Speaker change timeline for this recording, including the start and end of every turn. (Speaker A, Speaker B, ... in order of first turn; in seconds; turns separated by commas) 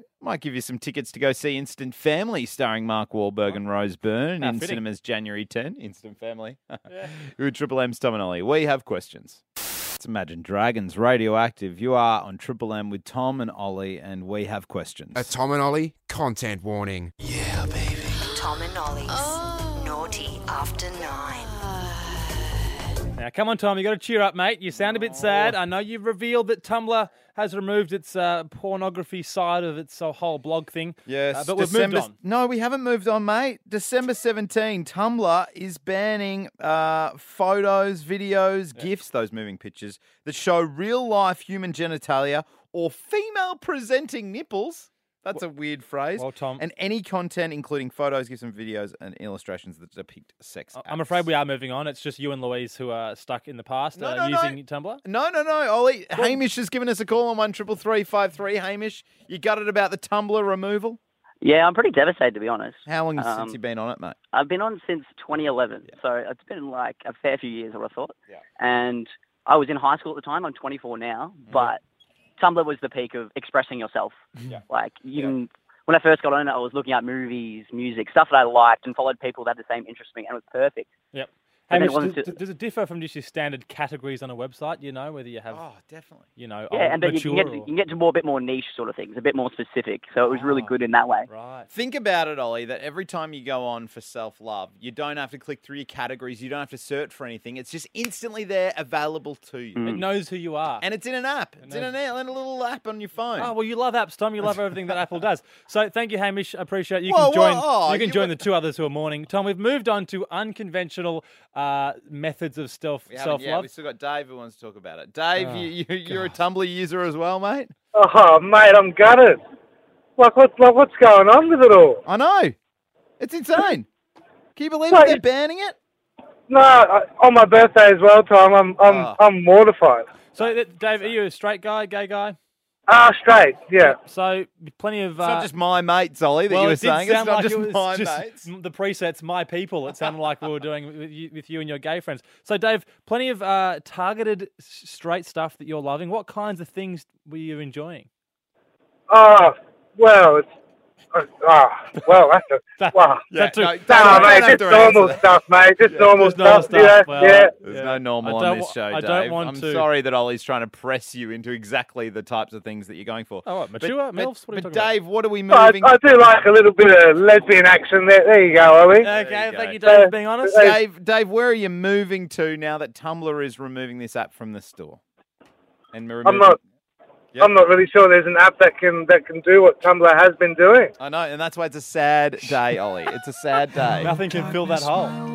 Speaker A: 0.2-9.4, Speaker B: 4.4-4.8, Speaker A: 10.0-15.3, Speaker C: 15.2-17.1, Speaker D: 18.4-19.2, Speaker D: 19.8-21.5, Speaker B: 23.2-32.2, Speaker A: 24.7-25.6, Speaker A: 31.1-51.2, Speaker B: 46.2-46.6, Speaker B: 50.8-55.0, Speaker A: 54.0-61.0, Speaker E: 61.4-63.6, Speaker A: 62.9-64.2, Speaker E: 64.3-71.8, Speaker A: 71.5-71.7, Speaker E: 72.4-80.9, Speaker B: 81.1-85.6, Speaker E: 81.7-82.3, Speaker A: 85.5-86.3, Speaker B: 86.4-87.7, Speaker E: 86.7-91.3, Speaker B: 90.2-91.7, Speaker A: 91.7-100.0, Speaker E: 99.8-100.0, Speaker B: 99.9-100.8, Speaker A: 100.8-103.5, Speaker B: 101.6-101.9, Speaker B: 103.4-113.7, Speaker A: 107.1-108.5, Speaker A: 113.1-117.7, Speaker B: 115.4-116.3, Speaker F: 118.0-119.4, Speaker F: 120.2-122.0, Speaker A: 122.0-122.6, Speaker A: 123.2-123.9, Speaker A: 124.6-125.8, Speaker F: 124.9-125.2, Speaker F: 126.5-130.1, Speaker A: 128.8-129.2, Speaker B: 130.3-132.4, Speaker A: 130.4-131.2, Speaker F: 132.9-134.0, Speaker B: 133.8-135.5, Speaker A: 135.2-138.5, Speaker B: 136.5-148.1, Speaker F: 149.1-150.5, Speaker F: 151.1-153.3, Speaker B: 152.8-154.6, Speaker A: 153.3-155.3, Speaker F: 153.8-157.5, Speaker A: 155.9-156.2, Speaker B: 156.2-159.9, Speaker A: 157.6-166.0, Speaker B: 163.4-164.9, Speaker F: 165.5-169.1, Speaker A: 169.0-169.8, Speaker B: 169.0-170.7, Speaker F: 169.8-170.8, Speaker A: 170.5-175.0, Speaker A: 175.9-176.6, Speaker F: 176.2-176.6, Speaker F: 177.4-180.9, Speaker A: 181.0-184.2, Speaker B: 183.9-185.2